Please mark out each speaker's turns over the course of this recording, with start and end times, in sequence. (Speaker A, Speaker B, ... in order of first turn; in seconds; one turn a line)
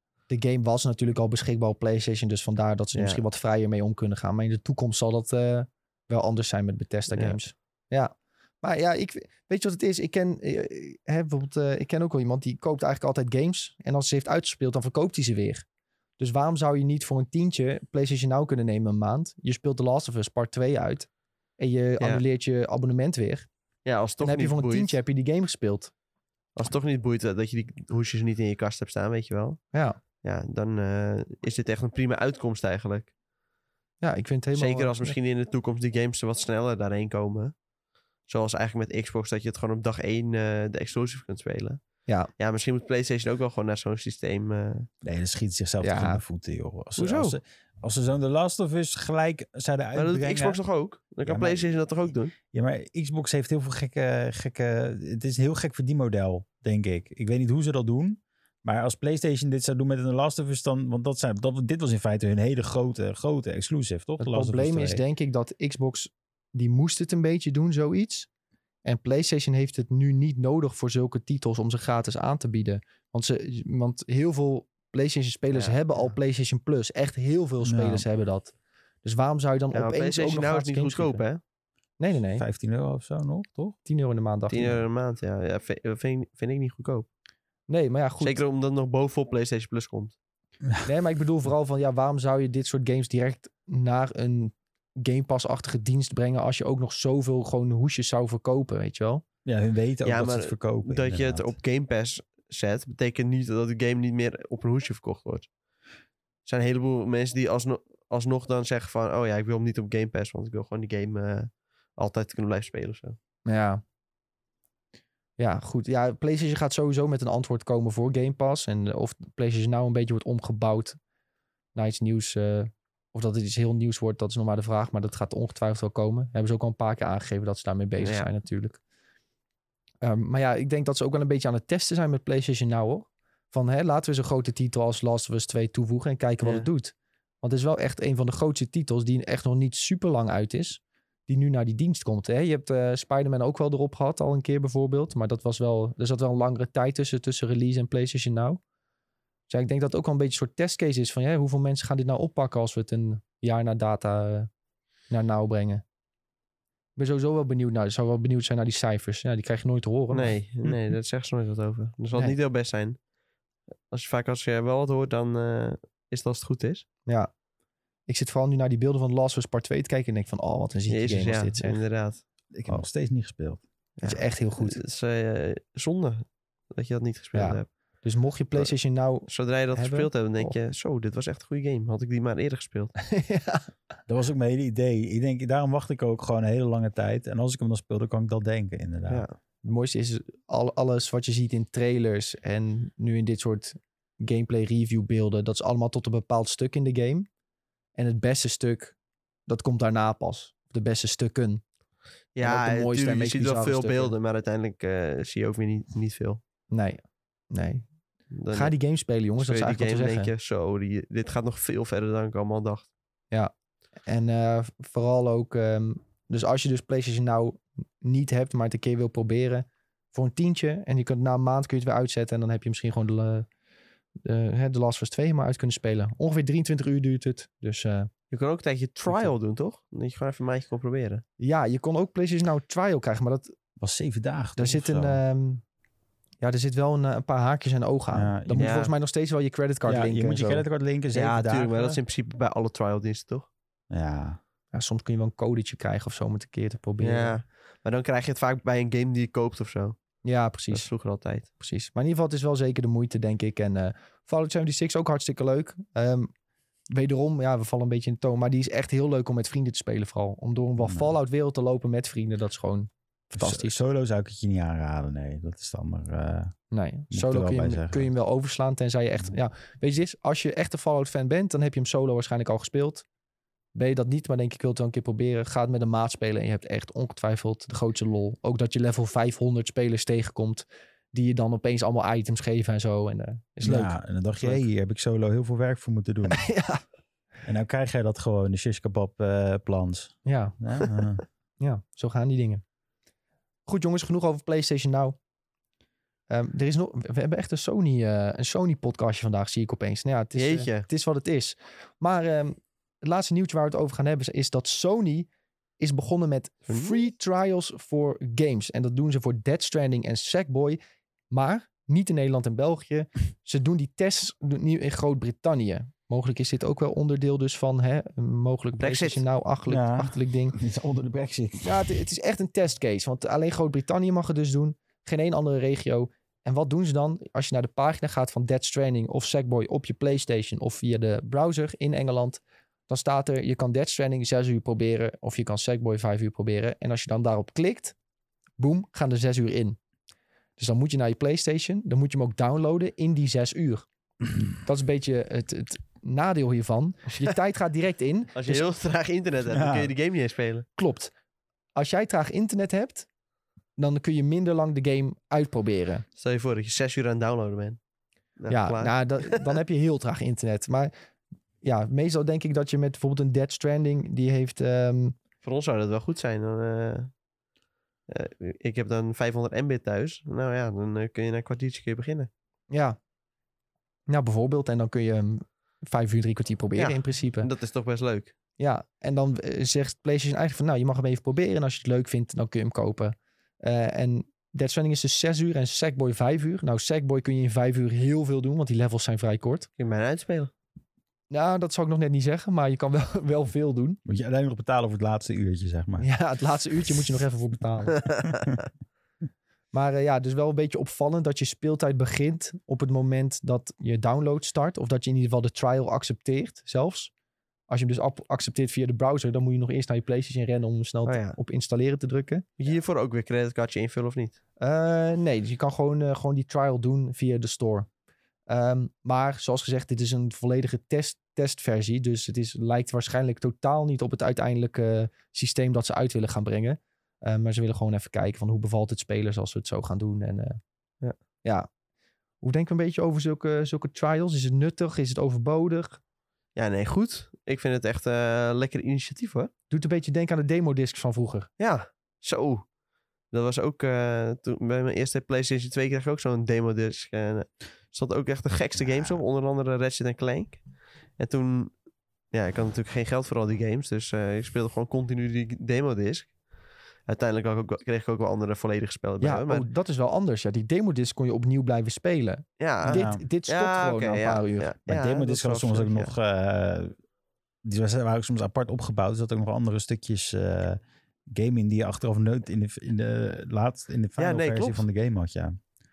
Speaker A: 0.3-15.7
Speaker B: 3.0-3.2
Speaker B: 7.1-7.4
Speaker A: 16.2-23.5
Speaker B: 23.9-25.0
Speaker A: 24.2-25.9
Speaker B: 26.6-33.1
Speaker A: 29.7-30.0
Speaker A: 34.0-35.2
Speaker B: 34.5-37.6
Speaker B: 38.2-44.9
Speaker C: 45.0-50.6
Speaker A: 45.8-46.2
Speaker B: 47.0-47.4
Speaker B: 50.0-52.3
Speaker C: 51.2-51.8
Speaker C: 52.5-65.0
Speaker A: 64.2-68.3
Speaker A: 68.8-81.2
Speaker B: 75.5-76.1
Speaker C: 77.6-78.0
Speaker B: 79.7-81.4
Speaker A: 82.0-82.4
Speaker C: 82.4-83.8
Speaker A: 83.8-84.8
Speaker B: 84.5-87.1
Speaker A: 87.7-88.4
Speaker B: 88.2-90.2
Speaker A: 90.8-99.2
Speaker C: 99.5-101.5
Speaker B: 100.0-105.5
Speaker B: 106.5-113.2
Speaker A: 113.5-113.8
Speaker A: 115.4-121.0
Speaker A: 121.8-128.8
Speaker B: 128.0-128.3
Speaker A: 130.0-148.6
Speaker B: 136.4-136.7
Speaker A: 149.5-154.5
Speaker A: 155.1-155.8
Speaker A: 157.0-160.4
Speaker B: 160.1-163.0
Speaker B: 163.9-166.9
Speaker A: 167.1-167.3
Speaker A: 168.1-171.8
Speaker B: 170.9-172.2
Speaker C: 172.6-173.6
Speaker B: 174.0-178.0
Speaker A: 174.0-174.8
Speaker A: 177.3-180.6
Speaker B: 179.3-182.9
Speaker A: 183.1-183.7
Speaker C: 184.1-189.3
Speaker A: 189.6-197.3
Speaker A: 198.0-199.0
Speaker A: 199.5-201.6
Speaker B: 202.4-206.4
Speaker A: 202.4-204.1
Speaker A: 206.7-207.9
Speaker B: 208.3-208.7
Speaker A: 208.5-210.3
Speaker B: 209.4-212.9
Speaker A: 214.1-223.5
Speaker A: 224.2-228.1
Speaker B: 228.3-231.2
Speaker A: 231.4-233.6
Speaker C: 233.8-235.2
Speaker A: 234.6-235.6
Speaker A: 236.4-240.6
Speaker C: 238.1-238.7
Speaker B: 238.6-238.9
Speaker C: 239.9-242.0
Speaker B: 241.1-243.5
Speaker C: 243.9-244.4
Speaker A: 244.7-247.4
Speaker B: 247.0-250.2
Speaker A: 250.2-250.9
Speaker B: 250.7-251.5
Speaker A: 251.6-256.3
Speaker A: 256.9-263.8
Speaker C: 260.8-261.1
Speaker C: 263.4-266.6
Speaker A: 266.7-273.1
Speaker C: 267.1-268.1
Speaker A: 273.7-284.6
Speaker C: 283.6-286.5
Speaker A: 286.3-286.8
Speaker C: 287.4-291.2
Speaker A: 290.2-290.6
Speaker A: 291.6-292.6
Speaker A: 293.7-295.2
Speaker A: 296.3-310.8
Speaker B: 300.4-300.9
Speaker B: 306.7-307.0
Speaker A: 311.3-320.6
Speaker B: 318.8-319.2
Speaker C: 319.7-321.7
Speaker A: 321.6-337.9
Speaker A: 338.6-339.8
Speaker A: 340.6-343.9
Speaker A: 344.6-348.6
Speaker B: 348.4-350.6
Speaker C: 349.5-349.9
Speaker A: 350.8-351.1
Speaker A: 351.8-353.1
Speaker A: 353.8-356.1
Speaker B: 356.1-357.8
Speaker B: 358.4-359.5
Speaker A: 358.5-360.9
Speaker A: 361.6-365.2
Speaker B: 365.4-367.1
Speaker B: 368.1-372.3
Speaker A: 372.7-373.0
Speaker A: 374.1-377.5
Speaker B: 376.8-378.3
Speaker A: 378.6-389.7
Speaker B: 389.8-390.5
Speaker A: 391.3-394.0
Speaker C: 394.1-396.1
Speaker A: 396.0-398.0
Speaker B: 398.1-398.5
Speaker A: 399.7-407.1
Speaker A: 407.7-412.5
Speaker B: 411.1-411.4
Speaker B: 412.6-414.4
Speaker A: 414.6-417.9
Speaker A: 418.5-430.6
Speaker A: 432.4-436.0
Speaker B: 436.6-439.5
Speaker A: 439.7-441.5
Speaker B: 441.6-442.7
Speaker B: 443.3-450.6
Speaker B: 451.2-456.4
Speaker B: 457.0-459.7
Speaker A: 459.2-464.8
Speaker B: 462.6-466.1
Speaker C: 462.9-463.2
Speaker C: 464.9-467.0
Speaker C: 467.6-475.6
Speaker B: 474.2-474.8